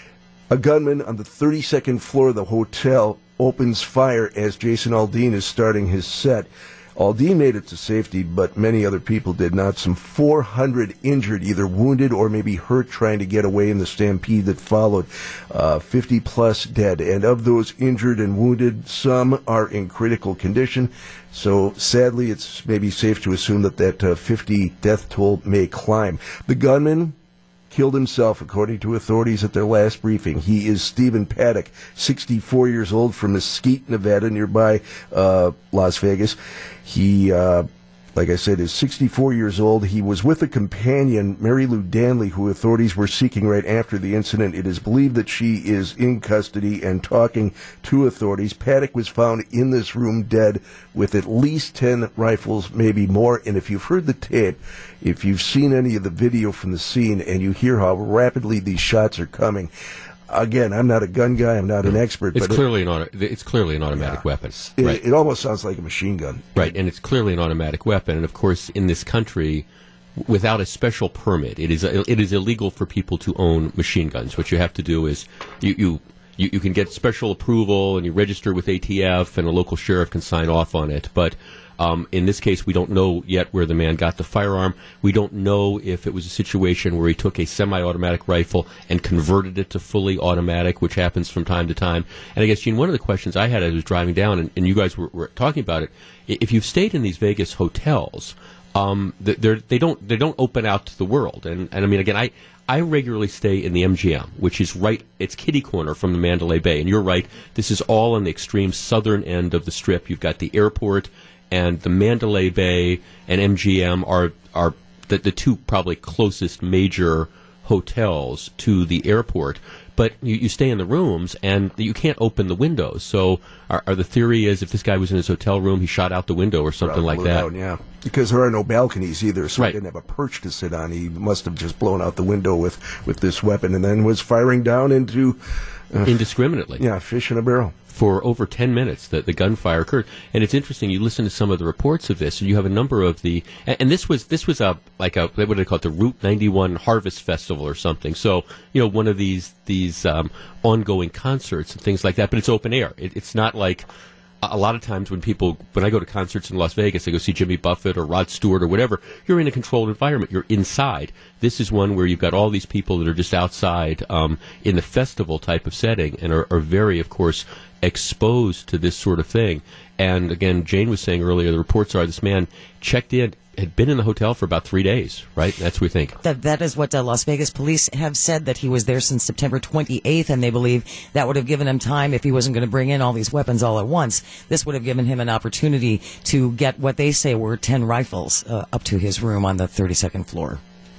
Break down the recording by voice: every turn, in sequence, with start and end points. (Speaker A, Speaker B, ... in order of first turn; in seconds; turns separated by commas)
Speaker A: 0.5-27.1, Speaker A: 27.7-59.7, Speaker A: 60.3-62.6, Speaker B: 62.3-65.0, Speaker A: 63.9-64.2, Speaker A: 64.8-66.7, Speaker B: 66.5-69.7, Speaker B: 70.2-127.5, Speaker A: 126.8-135.4, Speaker A: 135.9-136.2, Speaker B: 136.0-136.8, Speaker A: 136.8-137.7, Speaker B: 137.9-153.9, Speaker B: 154.4-176.2, Speaker C: 176.2-190.6